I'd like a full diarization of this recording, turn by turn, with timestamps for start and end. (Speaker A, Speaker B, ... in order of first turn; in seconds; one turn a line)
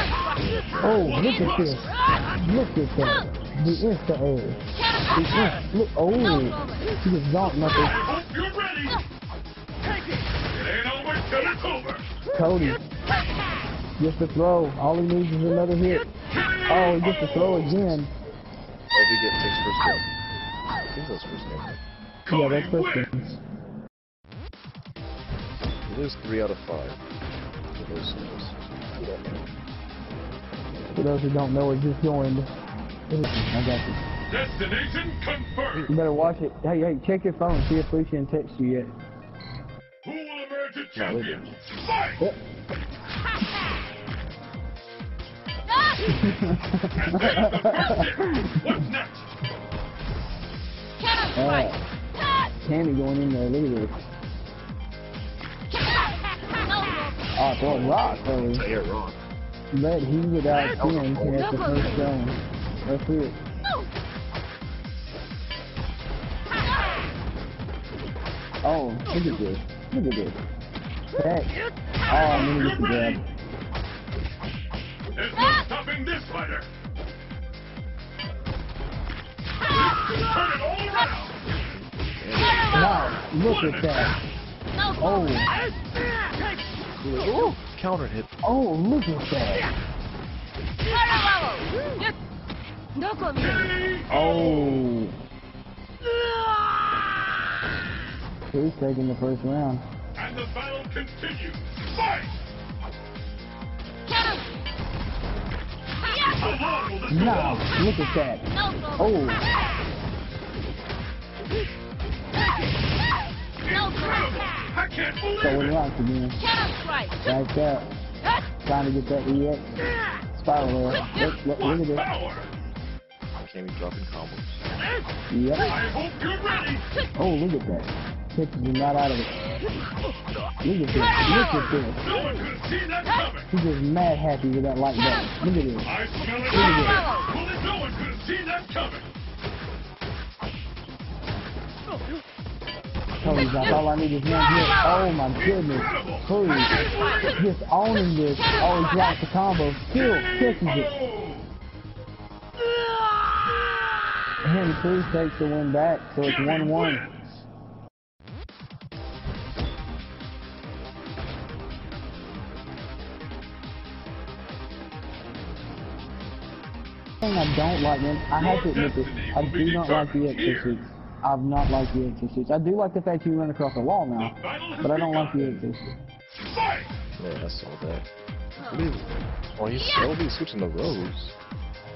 Speaker A: 0.3-1.2
Speaker B: 0.8-4.6
Speaker C: 0.9-1.8
Speaker B: 5.2-7.9
Speaker C: 7.8-9.0
Speaker C: 10.5-12.1
Speaker B: 12.3-12.8
Speaker B: 14.0-16.1
Speaker C: 16.6-17.0
Speaker B: 16.7-18.1
Speaker A: 17.6-18.0
Speaker A: 18.9-20.1
Speaker A: 20.9-21.8
Speaker C: 22.2-23.2
Speaker B: 22.3-23.4
Speaker A: 25.9-27.0
Speaker A: 27.7-29.5
Speaker B: 30.9-32.5
Speaker B: 33.1-34.0
Speaker C: 34.3-35.9
Speaker A: 35.7-36.4
Speaker B: 35.9-38.9
Speaker C: 40.0-42.1
Speaker A: 40.9-41.5
Speaker B: 46.1-48.8
Speaker C: 47.0-49.3
Speaker B: 51.4-51.8
Speaker B: 52.6-54.0
Speaker B: 57.4-58.6
Speaker A: 57.6-59.2
Speaker B: 59.7-63.4
Speaker A: 60.5-61.8
Speaker B: 68.6-70.4
Speaker B: 71.2-73.2
Speaker C: 72.1-73.2
Speaker C: 75.1-76.7
Speaker C: 79.7-81.3
Speaker A: 81.7-83.0
Speaker B: 82.7-84.1
Speaker C: 83.5-83.9
Speaker B: 85.0-85.5
Speaker A: 86.9-88.3
Speaker B: 88.4-89.7
Speaker C: 93.5-94.8
Speaker B: 94.1-95.1
Speaker B: 98.5-99.8
Speaker C: 100.2-102.3
Speaker C: 106.2-107.7
Speaker B: 107.1-109.4
Speaker C: 113.7-115.7
Speaker B: 115.4-116.4
Speaker B: 117.2-117.9
Speaker B: 118.6-119.7
Speaker B: 120.3-122.1
Speaker C: 121.6-122.5
Speaker A: 123.4-124.6
Speaker B: 125.3-125.8
Speaker C: 125.7-126.8
Speaker B: 127.1-129.3
Speaker B: 130.6-132.0
Speaker C: 132.0-133.5
Speaker B: 133.5-135.9
Speaker C: 135.8-139.1
Speaker B: 136.5-137.1
Speaker B: 143.2-146.8
Speaker A: 143.2-143.9
Speaker C: 145.5-147.4
Speaker B: 147.3-150.9
Speaker C: 150.7-151.4
Speaker B: 154.4-157.1
Speaker C: 156.2-157.4
Speaker B: 167.2-175.9
Speaker C: 168.4-170.7
Speaker C: 174.2-175.4
Speaker A: 175.4-175.6
Speaker C: 176.6-176.9
Speaker A: 177.2-181.3